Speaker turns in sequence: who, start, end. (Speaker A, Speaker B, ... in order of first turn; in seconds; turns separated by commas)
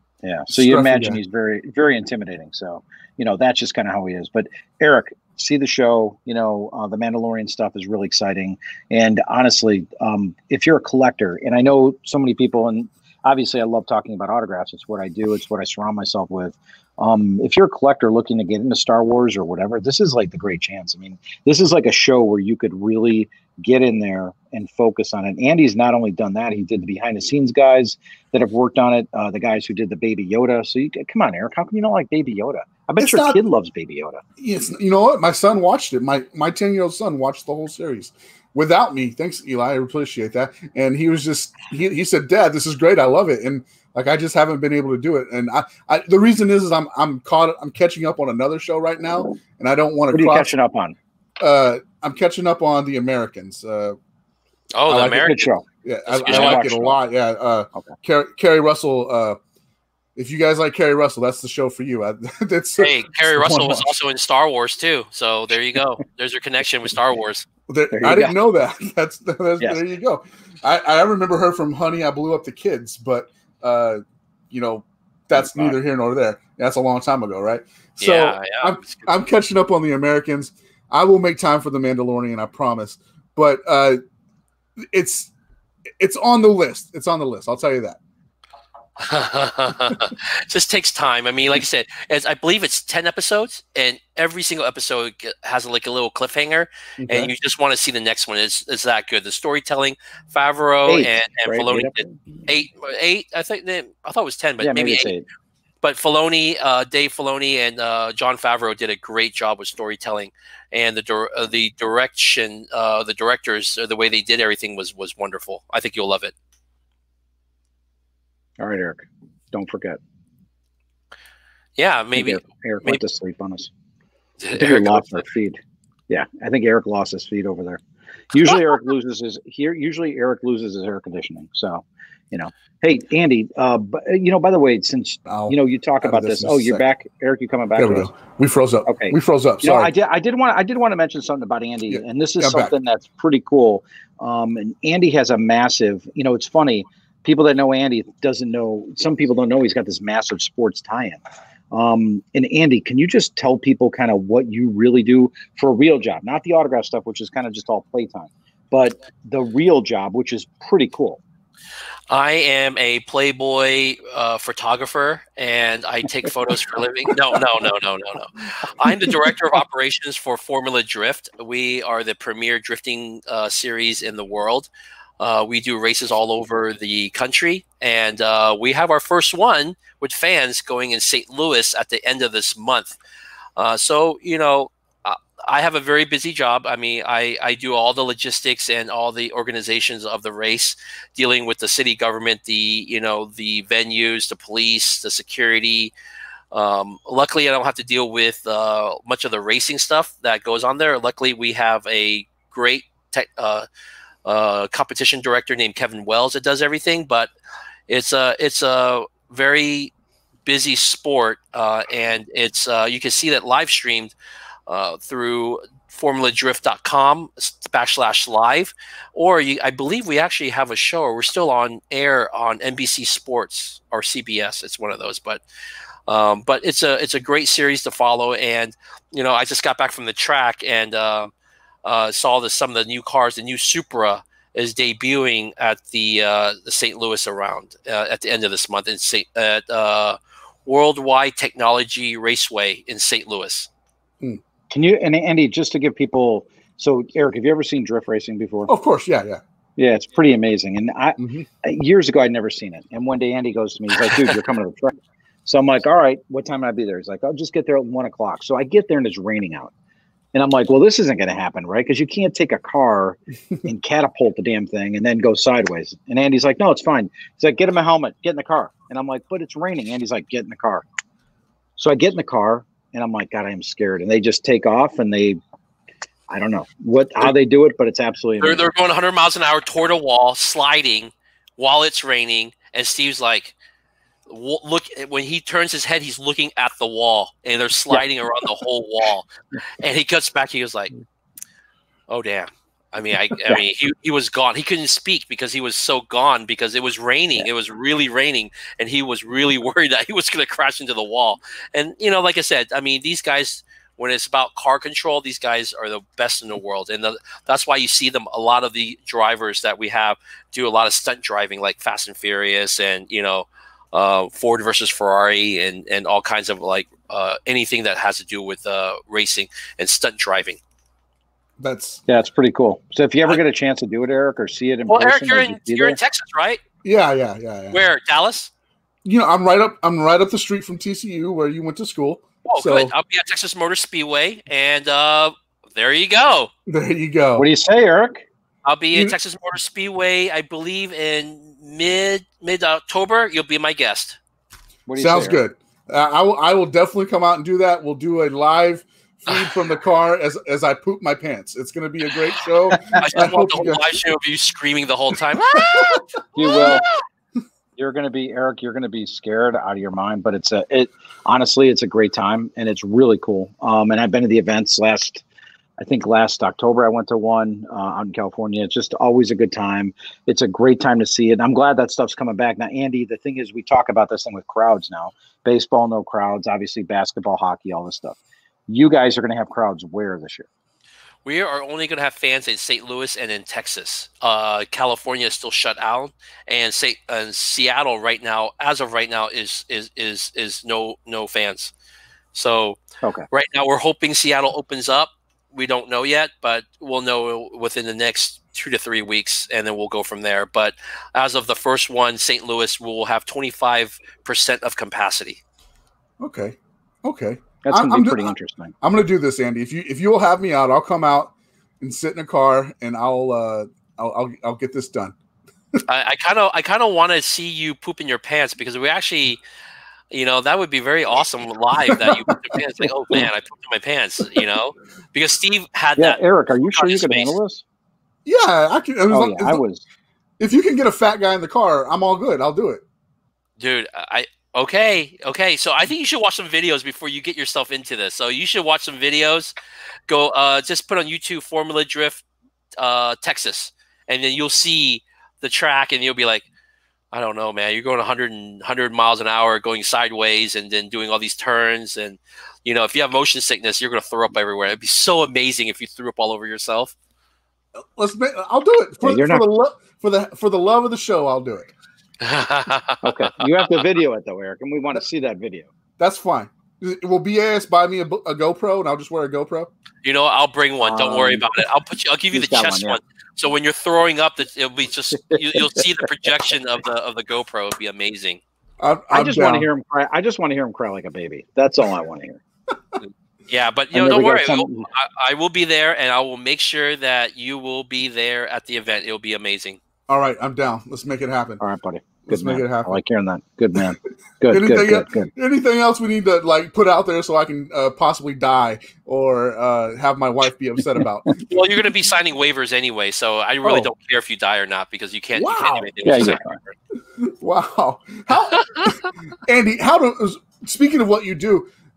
Speaker A: 0.2-34.2, Speaker B: 0.5-1.2, Speaker B: 33.0-33.4, Speaker B: 34.4-50.5, Speaker A: 50.1-51.0, Speaker B: 51.4-54.0, Speaker C: 54.7-55.5, Speaker B: 54.9-55.3, Speaker A: 55.1-55.6, Speaker B: 55.8-59.4, Speaker C: 56.1-56.6, Speaker A: 56.2-57.0, Speaker B: 60.1-63.9, Speaker C: 62.8-67.5, Speaker B: 67.7-84.0, Speaker A: 67.9-68.3, Speaker A: 75.3-75.8, Speaker C: 78.0-79.1, Speaker B: 84.8-85.3, Speaker B: 86.0-88.0, Speaker C: 89.0-105.1, Speaker B: 97.0-97.3, Speaker A: 100.9-102.1, Speaker A: 104.6-105.2, Speaker C: 105.8-116.3, Speaker A: 118.6-120.0, Speaker C: 121.8-123.0, Speaker A: 122.1-123.7, Speaker C: 124.4-125.2, Speaker A: 124.5-125.6, Speaker A: 126.1-127.8, Speaker A: 128.3-138.1, Speaker B: 135.2-136.8, Speaker B: 137.8-139.9, Speaker A: 138.9-151.2, Speaker B: 141.9-142.7, Speaker A: 151.7-161.2, Speaker C: 162.1-174.7, Speaker A: 168.9-169.3, Speaker C: 175.2-183.0, Speaker C: 183.6-195.9, Speaker C: 196.5-203.7, Speaker C: 204.2-207.3, Speaker C: 207.9-209.9, Speaker C: 210.4-214.1, Speaker C: 214.7-225.4, Speaker C: 226.1-231.3, Speaker C: 231.8-243.7, Speaker A: 244.7-248.7, Speaker B: 248.7-249.4, Speaker A: 249.8-259.7, Speaker B: 251.2-251.5, Speaker A: 260.3-270.9, Speaker A: 271.8-275.4, Speaker A: 276.3-278.7, Speaker C: 278.4-283.5, Speaker C: 284.3-289.3, Speaker C: 289.8-290.9, Speaker C: 292.1-320.6, Speaker B: 321.6-322.0, Speaker A: 322.1-326.0, Speaker C: 324.9-326.6, Speaker B: 326.8-327.8, Speaker C: 327.7-328.5, Speaker B: 329.0-332.9, Speaker C: 332.4-336.5, Speaker B: 336.7-337.5, Speaker A: 337.4-338.2, Speaker C: 338.6-344.2, Speaker A: 344.9-345.4, Speaker B: 345.0-353.9, Speaker A: 352.7-353.2, Speaker C: 353.0-356.9, Speaker B: 355.5-356.6, Speaker A: 356.3-356.9, Speaker A: 357.8-365.2, Speaker A: 365.8-378.2, Speaker A: 378.7-380.5, Speaker C: 381.2-391.7, Speaker C: 392.3-392.8, Speaker C: 393.3-405.4, Speaker B: 406.2-415.1, Speaker A: 407.6-408.7, Speaker C: 415.9-419.4, Speaker C: 420.1-427.3, Speaker B: 421.9-422.6, Speaker A: 426.0-427.6, Speaker B: 428.2-429.6, Speaker A: 429.1-429.8, Speaker B: 430.4-432.8, Speaker C: 433.6-439.5, Speaker C: 440.1-442.2, Speaker C: 442.8-446.4, Speaker C: 447.1-456.9, Speaker B: 457.8-461.7, Speaker A: 459.0-459.4, Speaker C: 462.2-463.7, Speaker A: 463.0-465.7, Speaker B: 466.0-469.7, Speaker C: 470.0-478.4, Speaker A: 470.8-471.5, Speaker A: 472.3-473.0, Speaker A: 475.3-475.8, Speaker B: 478.8-479.7, Speaker A: 479.1-482.4, Speaker C: 483.0-489.8, Speaker A: 483.9-484.9, Speaker B: 490.1-491.6, Speaker A: 491.6-495.3, Speaker B: 492.2-493.0, Speaker B: 494.5-501.4, Speaker C: 501.3-506.7, Speaker B: 505.3-505.9, Speaker A: 506.0-506.6, Speaker B: 507.2-511.7, Speaker C: 508.5-508.9